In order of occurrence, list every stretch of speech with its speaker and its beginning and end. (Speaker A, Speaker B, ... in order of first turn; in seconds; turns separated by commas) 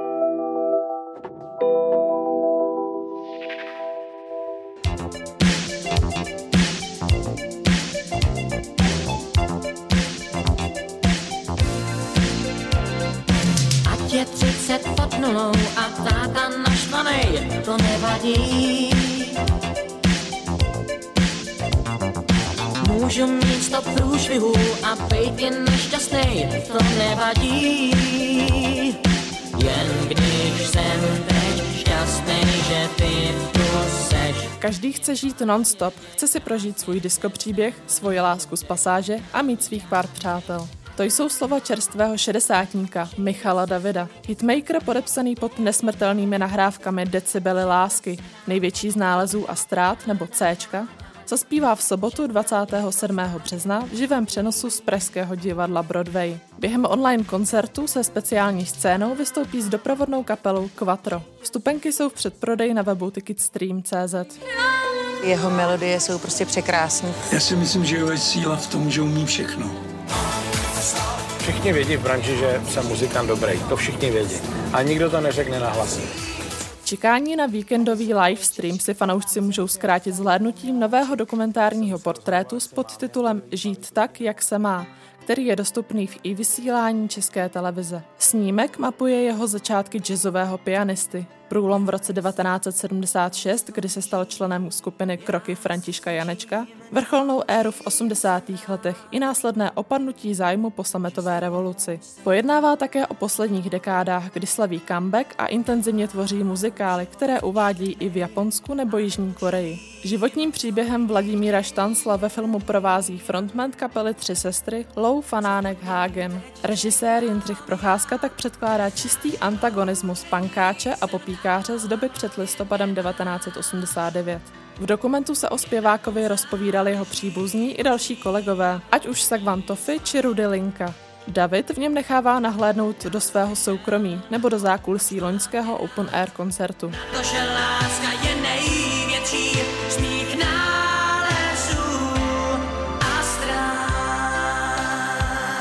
Speaker A: 13.9-19.3, Speaker A: 22.8-29.0, Speaker A: 29.6-34.5, Speaker B: 34.6-64.4, Speaker C: 65.2-67.2, Speaker D: 67.3-69.8, Speaker E: 71.4-76.1, Speaker B: 76.8-137.0, Speaker A: 137.1-144.5